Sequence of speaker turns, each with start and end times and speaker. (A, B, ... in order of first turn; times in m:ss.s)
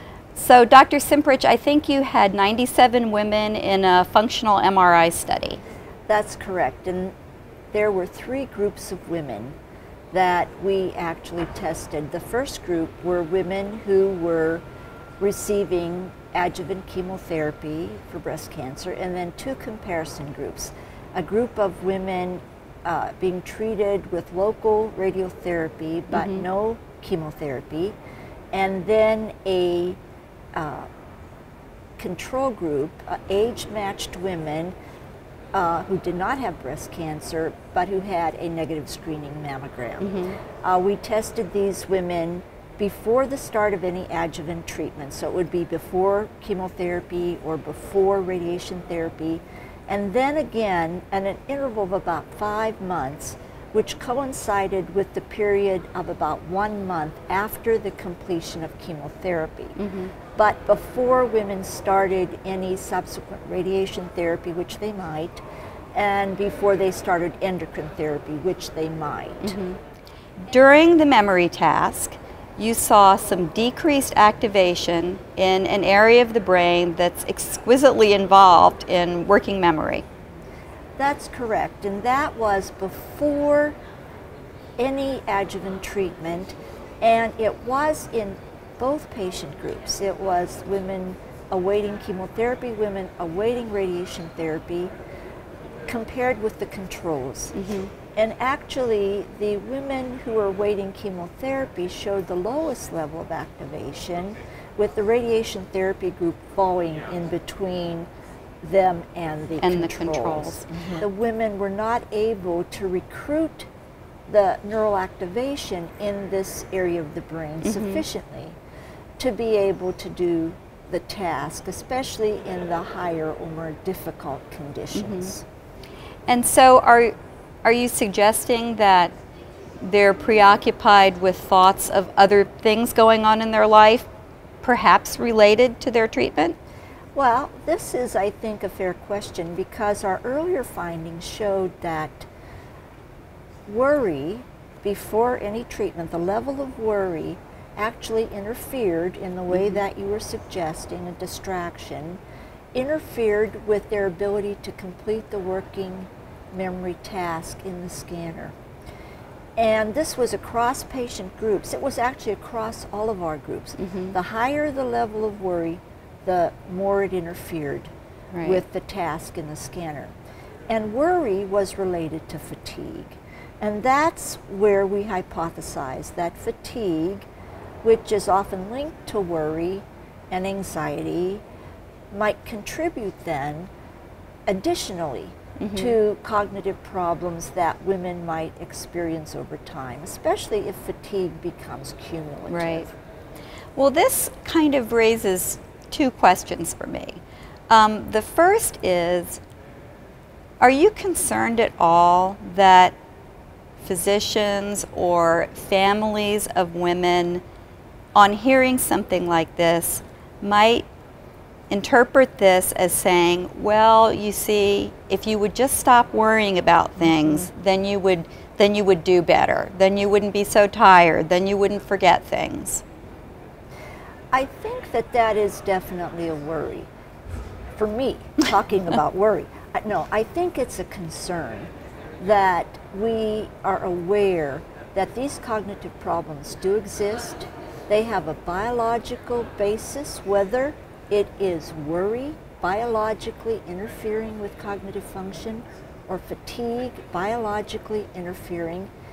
0:00.3-0:05.6 A
0:06.1-0:07.1 B
0:07.7-0:09.6 B
0:10.1-0:14.6 B
0:15.2-0:27.9 B
0:26.1-0:26.4 A
0:28.5-0:30.0 B
0:30.6-0:30.9 B
0:32.0-0:34.7 B
0:35.5-0:59.8 B
0:40.0-0:40.4 A
0:59.8-1:00.1 A
1:00.3-1:05.4 B
1:05.9-1:09.6 B
1:09.4-1:09.8 A
1:10.4-1:20.0 A
1:21.0-1:23.7 B
1:24.8-1:34.9 B
1:35.9-1:37.5 B
1:37.5-1:37.9 A
1:38.2-1:48.1 B
1:48.6-1:53.7 B
1:49.6-1:51.0 A
1:54.3-1:58.6 B
1:57.6-1:58.0 A
1:59.2-2:05.4 B
2:04.9-2:05.3 A
2:06.3-2:09.1 A
2:09.8-2:14.1 A
2:14.6-2:16.6 A
2:17.1-2:22.3 B
2:23.6-2:32.2 B
2:29.5-2:29.8 A
2:32.7-2:38.5 B
2:39.6-2:47.9 B
2:43.8-2:44.1 A
2:48.3-2:48.6 A
2:48.4-2:50.1 B
2:50.7-2:57.2 B
2:57.8-3:01.4 B
3:02.1-3:03.7 B
3:04.5-3:12.9 B
3:05.6-3:06.0 A
3:12.5-3:12.8 A
3:13.8-3:19.4 A
3:20.6-3:22.9 A
3:23.8-3:27.4 A
3:28.1-3:30.8 A
3:31.7-3:42.8 A
3:44.3-3:46.9 B
3:47.8-4:08.9 B